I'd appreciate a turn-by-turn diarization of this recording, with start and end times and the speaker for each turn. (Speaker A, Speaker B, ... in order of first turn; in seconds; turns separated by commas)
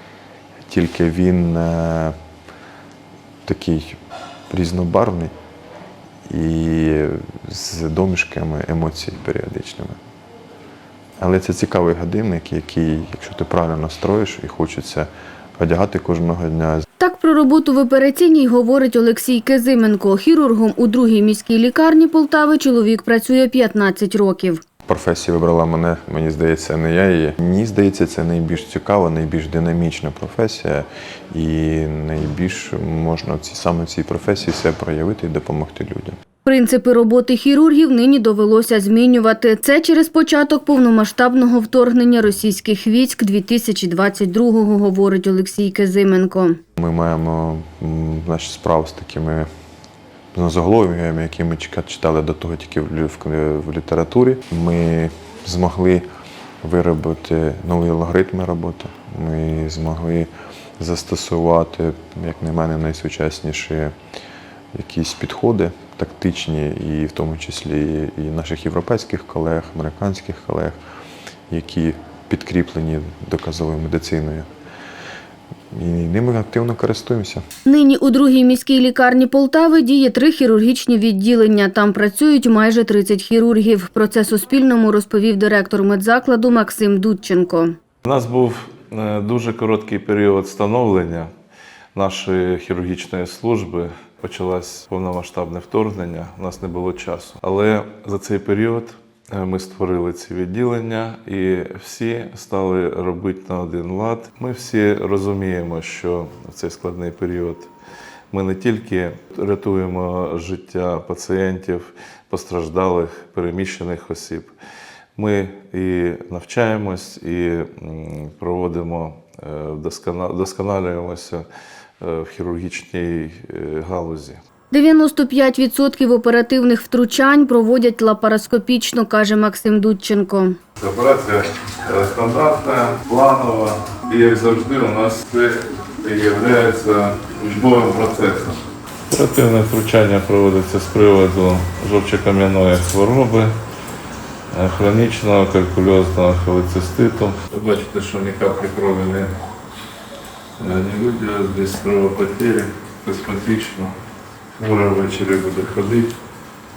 Speaker A: 0.7-2.1, Speaker A: 3.5-4.0, Speaker A: 4.5-5.3, Speaker A: 6.3-10.0, Speaker A: 11.2-16.8, Speaker B: 17.0-24.6, Speaker A: 24.9-36.2, Speaker B: 36.5-46.6, Speaker A: 46.8-49.5, Speaker A: 50.3-56.0, Speaker A: 56.6-64.0, Speaker A: 64.7-70.8, Speaker A: 71.5-74.5, Speaker A: 75.7-77.4, Speaker B: 77.7-87.7, Speaker C: 88.0-91.3, Speaker C: 91.9-107.7, Speaker C: 108.3-114.5, Speaker C: 115.2-121.5, Speaker C: 122.0-124.4, Speaker B: 124.7-130.6, Speaker C: 130.8-138.6, Speaker C: 139.1-143.5, Speaker C: 144.5-149.3, Speaker C: 150.6-153.9, Speaker C: 154.6-156.1